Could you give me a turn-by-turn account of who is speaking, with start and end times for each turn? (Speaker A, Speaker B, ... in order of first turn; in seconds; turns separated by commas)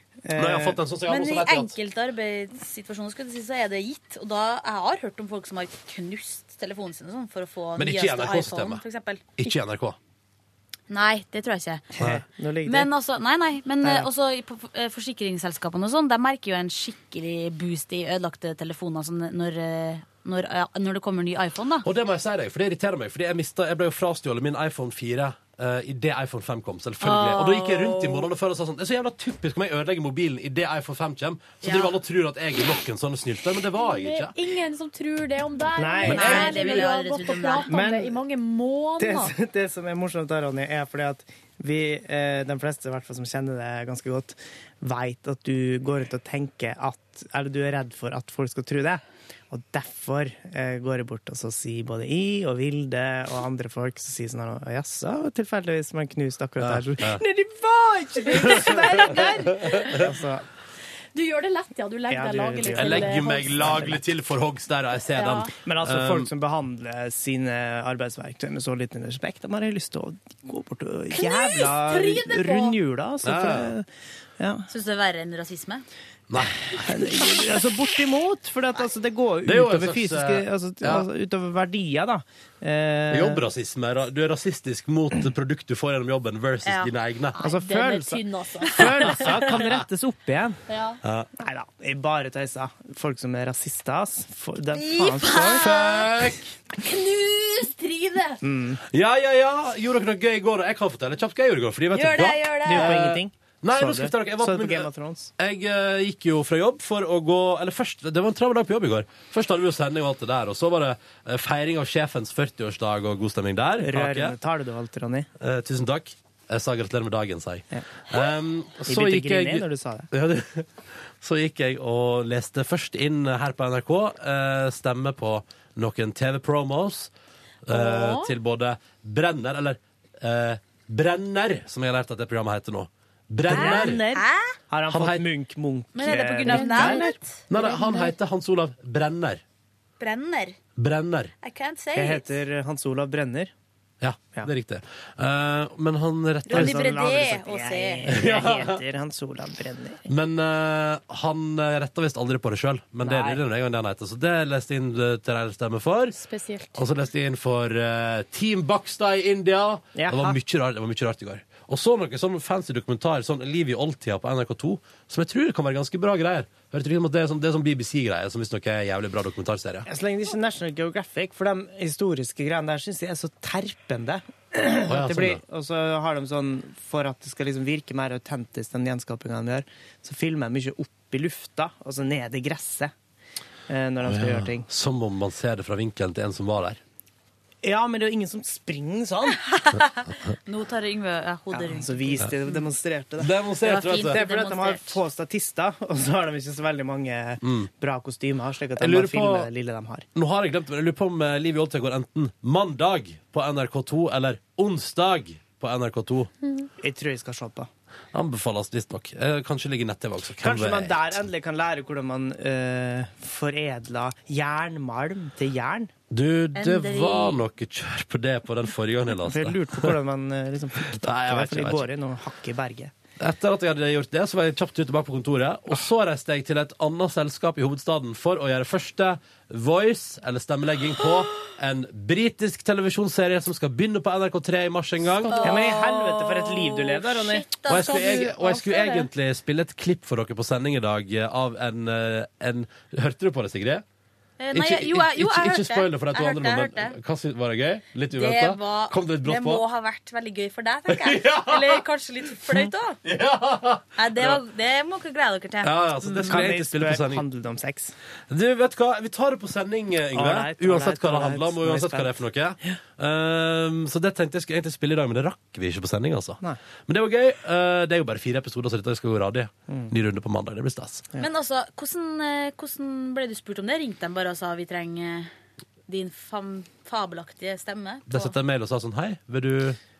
Speaker A: 0.2-0.8, Speaker B: 0.3-1.7, Speaker C: 1.1-9.3, Speaker B: 7.8-8.8, Speaker B: 9.4-10.0, Speaker C: 10.9-11.9, Speaker A: 11.9-12.9, Speaker C: 12.6-21.9, Speaker A: 13.8-14.1, Speaker B: 21.8-34.3, Speaker C: 27.0-28.3, Speaker C: 31.6-31.9, Speaker D: 33.8-39.3, Speaker A: 35.8-36.6, Speaker B: 36.1-36.5, Speaker C: 36.1-37.7, Speaker A: 37.7-38.2, Speaker A: 39.0-60.5, Speaker B: 56.6-57.2, Speaker B: 58.5-58.7, Speaker D: 58.5-59.5, Speaker D: 61.1-63.9, Speaker A: 62.1-64.0, Speaker B: 62.7-66.3, Speaker D: 65.1-65.5, Speaker A: 65.6-73.8, Speaker D: 71.1-72.8, Speaker B: 73.2-73.7, Speaker A: 74.4-74.7, Speaker C: 74.7-75.8, Speaker B: 76.3-77.4, Speaker A: 76.7-83.4, Speaker B: 79.4-81.0, Speaker B: 83.1-87.3, Speaker C: 86.6-86.9, Speaker D: 87.4-89.3, Speaker A: 87.4-90.6, Speaker D: 90.7-91.0, Speaker B: 91.0-91.3, Speaker A: 91.4-95.8, Speaker C: 94.7-96.0, Speaker B: 95.5-96.5, Speaker D: 96.8-98.4, Speaker A: 98.4-98.8, Speaker B: 98.9-114.3, Speaker C: 101.9-102.9, Speaker A: 102.6-105.3, Speaker A: 113.8-115.3, Speaker B: 115.4-127.1, Speaker A: 118.8-120.1, Speaker B: 127.6-134.0, Speaker D: 127.7-128.3, Speaker A: 133.5-137.1, Speaker C: 133.5-134.6, Speaker B: 134.9-135.2, Speaker C: 135.9-137.2, Speaker D: 136.4-138.1, Speaker B: 137.5-139.4, Speaker C: 140.0-140.6, Speaker B: 140.8-141.3, Speaker C: 141.4-142.3, Speaker A: 141.9-143.5, Speaker B: 144.0-146.9, Speaker C: 146.5-148.1, Speaker A: 146.5-150.0, Speaker B: 148.1-148.8, Speaker B: 150.1-156.1, Speaker A: 153.0-153.4, Speaker D: 156.1-156.8, Speaker B: 156.8-169.9, Speaker A: 159.9-160.4, Speaker A: 169.9-182.9, Speaker B: 174.9-175.4, Speaker A: 183.7-184.7, Speaker B: 184.0-186.8, Speaker A: 187.6-189.4, Speaker C: 189.5-192.6, Speaker A: 191.5-193.3, Speaker B: 193.2-194.2, Speaker C: 193.6-195.0, Speaker A: 194.0-200.0, Speaker B: 197.4-197.7, Speaker B: 198.8-199.5, Speaker B: 200.1-206.3, Speaker A: 206.8-207.7, Speaker B: 208.1-211.0, Speaker A: 210.4-215.9, Speaker B: 216.1-220.0, Speaker C: 216.5-217.4, Speaker A: 219.2-222.9, Speaker B: 220.8-221.9, Speaker B: 223.2-235.3, Speaker C: 231.0-231.4, Speaker D: 235.3-235.5, Speaker C: 235.3-238.2, Speaker A: 235.4-238.0, Speaker B: 237.7-243.8, Speaker D: 237.8-239.0, Speaker C: 244.4-246.9, Speaker B: 244.5-249.6, Speaker C: 248.1-253.0, Speaker B: 250.9-251.8, Speaker B: 253.0-254.4, Speaker C: 253.9-256.4, Speaker B: 255.6-257.2, Speaker A: 256.2-257.9, Speaker B: 258.3-271.1, Speaker A: 260.1-262.2, Speaker C: 271.2-275.3, Speaker C: 275.9-278.3, Speaker B: 278.1-279.8